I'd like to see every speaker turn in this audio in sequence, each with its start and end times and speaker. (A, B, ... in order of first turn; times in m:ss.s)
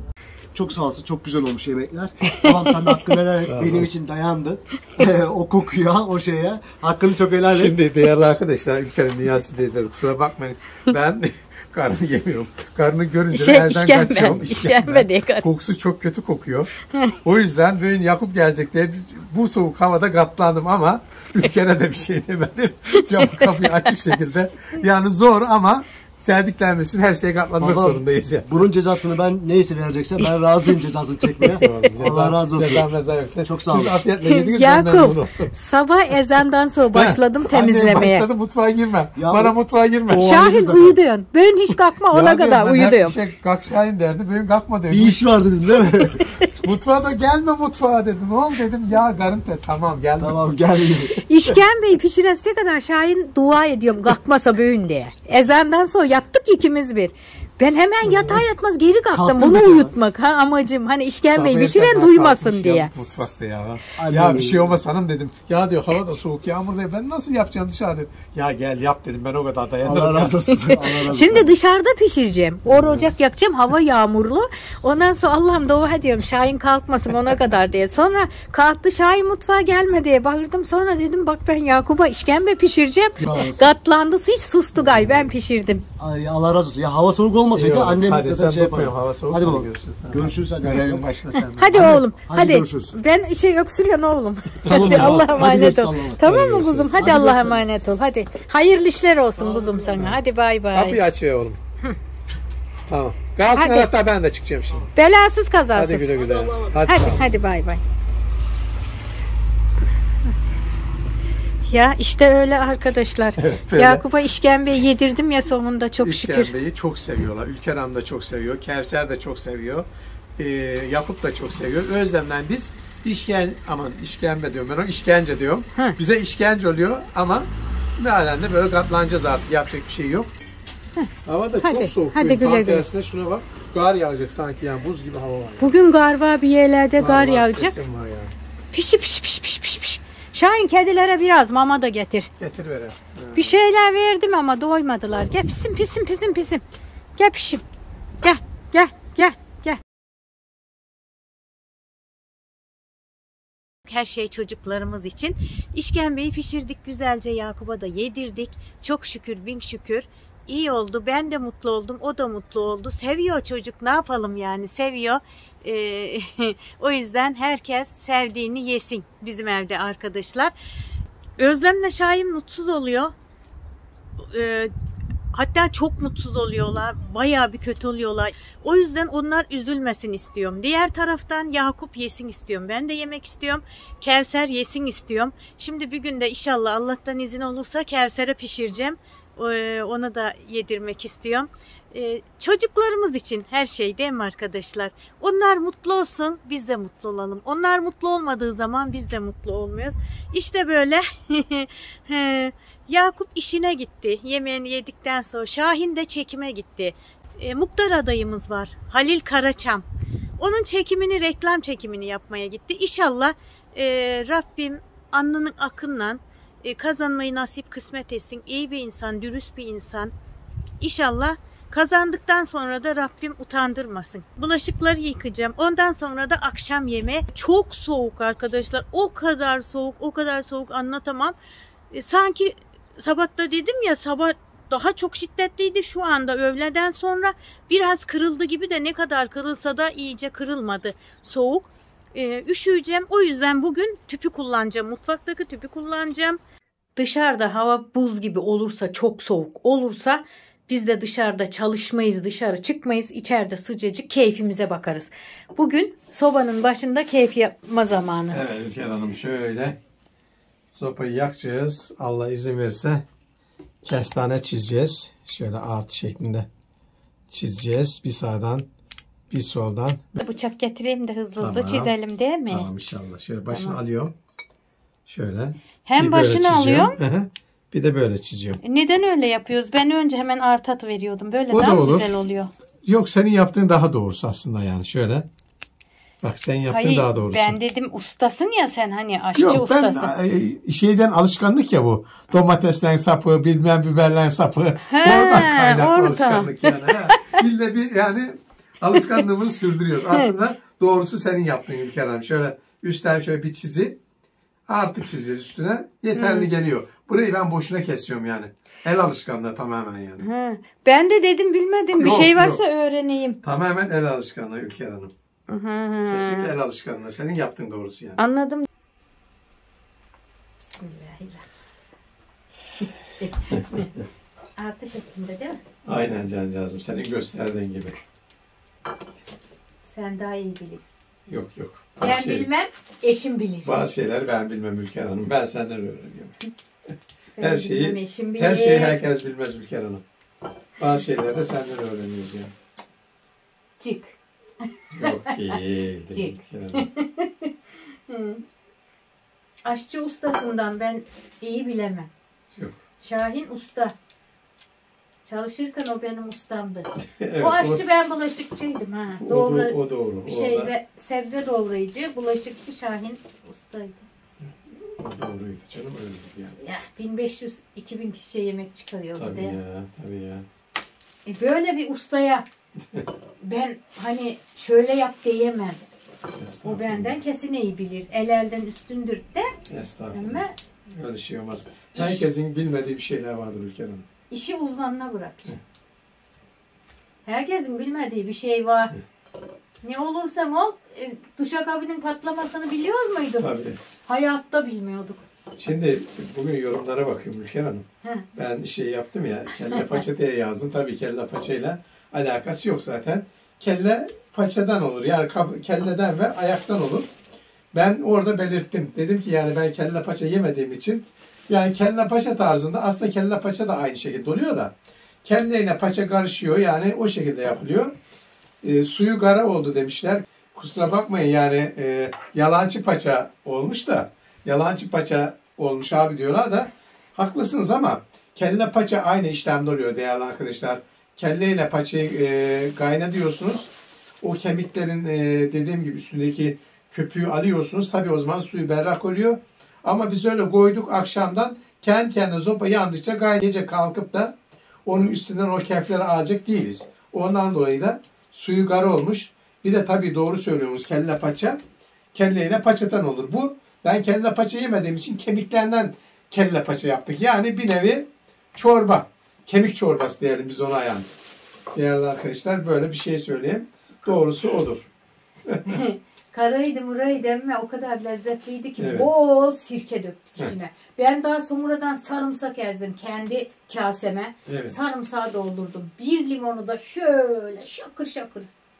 0:00.5-0:07.8 A
0:02.3-0:02.9 B
0:03.4-0:03.9 C
0:07.5-0:16.7 C
0:13.3-0:15.5 B
0:17.2-0:28.5 C
0:22.9-0:24.2 B
0:27.6-0:32.9 A
0:31.4-0:31.6 B
0:31.6-0:35.5 C
0:33.5-0:34.0 A
0:34.2-0:38.3 B
0:36.9-0:40.4 C
0:39.2-0:39.5 A
0:40.1-0:41.0 A
0:40.1-0:43.2 B
0:42.1-0:45.2 C
0:44.9-0:46.3 A
0:46.6-0:50.4 C
0:50.2-0:51.3 A
0:51.2-1:03.1 B
0:58.1-0:58.4 A
0:59.1-0:59.9 A
1:01.3-1:10.5 C
1:04.0-1:04.8 A
1:09.8-1:11.5 A
1:10.5-1:25.8 B
1:12.7-1:13.1 C
1:23.2-1:23.7 A
1:24.8-1:25.3 C
1:26.0-1:33.0 A
1:27.5-1:32.0 C
1:31.4-1:41.0 B
1:34.6-1:37.6 A
1:34.7-1:35.4 C
1:39.4-1:40.1 A
1:40.7-1:41.6 C
1:42.9-1:44.9 C
1:43.5-1:43.9 B
1:45.0-1:46.2 B
1:45.7-1:47.3 C
1:46.2-1:47.1 A
1:46.8-1:47.8 B
1:51.6-1:56.5 B
1:53.4-1:54.0 C
1:56.0-2:10.3 C
2:11.0-2:12.9 B
2:11.3-2:15.7 C
2:15.6-2:17.8 B
2:17.0-2:18.3 C
2:18.7-2:22.3 B
2:22.4-2:23.6 C
2:23.3-2:26.6 B
2:27.2-2:27.6 B
2:28.2-2:29.8 B
2:33.8-2:50.5 B
2:51.4-2:53.1 B
2:54.2-2:54.7 B
2:55.3-3:29.8 B
3:30.4-3:40.1 B
3:40.8-3:51.4 B
3:51.9-4:06.4 B
4:07.0-4:18.4 B
4:18.3-4:19.8 C
4:20.7-4:23.0 C
4:23.8-4:26.5 C
4:27.3-4:28.7 C
4:29.3-4:30.2 C
4:30.2-4:32.7 B
4:31.4-4:31.9 C
4:32.5-4:34.1 C
4:33.5-4:33.8 B
4:35.1-4:38.6 C
4:35.9-4:37.0 B
4:38.6-4:42.5 B
4:41.5-4:42.2 C
4:42.8-4:45.3 C
4:46.2-4:47.6 C
4:46.7-4:50.1 B
4:49.4-5:04.0 C
4:54.9-4:57.4 B
5:04.7-5:10.2 C
5:06.2-5:06.5 B
5:10.2-5:13.4 B
5:12.0-5:12.6 C
5:13.4-5:15.1 C
5:15.5-5:16.5 B
5:16.1-5:18.2 C
5:18.2-5:18.7 B
5:20.6-5:21.5 B
5:23.2-5:23.9 B
5:24.6-5:25.6 B
5:25.8-5:28.0 C
5:29.8-5:30.8 B
5:31.3-5:32.5 C
5:32.0-5:33.7 B
5:33.6-5:36.4 C
5:37.4-5:39.0 B
5:37.4-5:40.0 C
5:40.8-5:42.5 C
5:43.8-5:44.2 B
5:44.9-5:46.9 C
5:45.0-5:45.4 B
5:46.1-5:47.5 B
5:48.1-5:48.4 B
5:49.6-5:52.1 B
5:53.0-5:53.9 B
5:55.2-6:04.1 B
5:57.2-5:57.8 C
5:59.2-6:00.7 C
6:04.4-6:06.6 C
6:06.6-6:09.6 B
6:09.2-6:10.5 C
6:11.3-6:12.5 B
6:13.4-6:15.8 B
6:16.3-6:17.2 C
6:16.6-6:19.6 B
6:19.7-6:24.1 C
6:20.1-6:20.6 B
6:21.9-6:22.2 B
6:24.3-6:25.6 B
6:27.2-6:29.0 B
6:29.8-6:33.5 B
6:33.4-6:33.8 C
6:34.0-6:35.2 B
6:35.5-6:47.1 C
6:47.7-6:57.9 C
6:58.6-7:31.6 C
7:32.1-7:41.1 C
7:41.7-7:44.9 C
7:45.6-7:58.5 B
7:48.8-7:49.1 C
7:54.5-7:54.8 C